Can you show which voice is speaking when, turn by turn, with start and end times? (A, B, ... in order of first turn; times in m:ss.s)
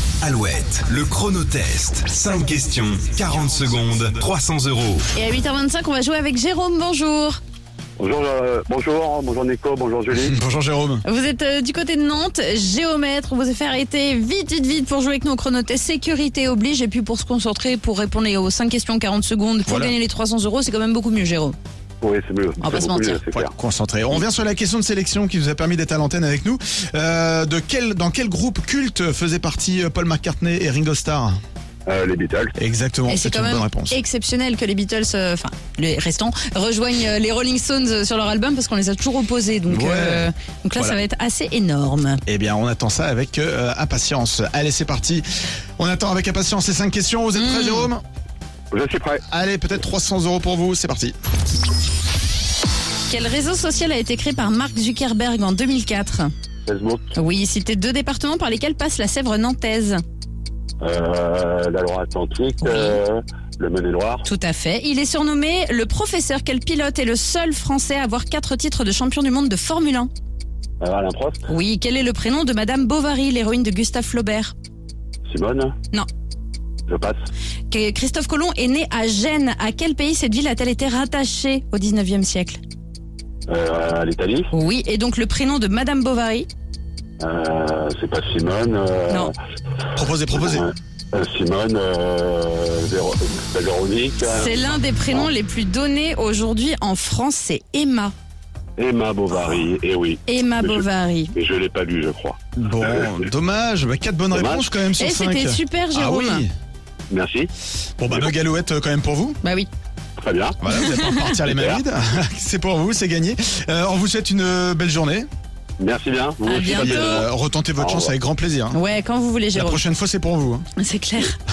0:00.2-0:05.0 A
0:05.1-0:07.4 B
0:08.0-0:10.4 C
0:10.1-0:11.0 D
0:11.0-0:21.6 B
0:19.6-0:19.9 D
0:22.0-0:23.5 C
0:22.6-0:23.2 B
0:23.3-0:31.4 D
0:31.8-0:32.6 C
0:32.6-0:34.0 D
0:33.1-0:42.2 B
0:39.7-0:41.0 D
0:42.2-0:45.2 D
0:45.8-0:48.0 D
0:47.3-0:47.9 B
0:48.7-0:49.2 C
0:49.3-0:51.1 D
0:53.1-0:56.3 B
0:56.7-0:57.1 C
0:57.1-1:00.0 B
1:00.8-1:04.2 C
1:02.6-1:03.0 B
1:04.2-1:10.1 B
1:10.8-1:11.4 C
1:11.5-1:14.5 B
1:15.2-1:15.8 C
1:16.9-1:17.2 C
1:17.7-1:22.6 B
1:23.5-1:24.5 C
1:24.5-1:26.5 B
1:27.2-1:29.3 C
1:29.9-1:30.7 D
1:30.3-1:35.3 C
1:34.2-1:38.1 B
1:38.8-1:43.1 C
1:40.3-1:41.3 B
1:42.6-1:46.5 D
1:44.3-1:44.7 C
1:45.0-1:46.4 B
1:47.1-1:47.5 C
1:48.0-1:49.4 D
1:49.4-1:49.7 B
1:50.2-1:50.6 C
1:50.6-1:55.3 D
1:50.7-1:51.4 B
1:51.4-1:51.8 C
1:55.8-1:58.1 C
1:56.4-1:57.3 B
1:56.6-1:58.8 D
1:58.7-1:59.8 B
1:59.5-2:00.6 D
2:00.8-2:01.4 B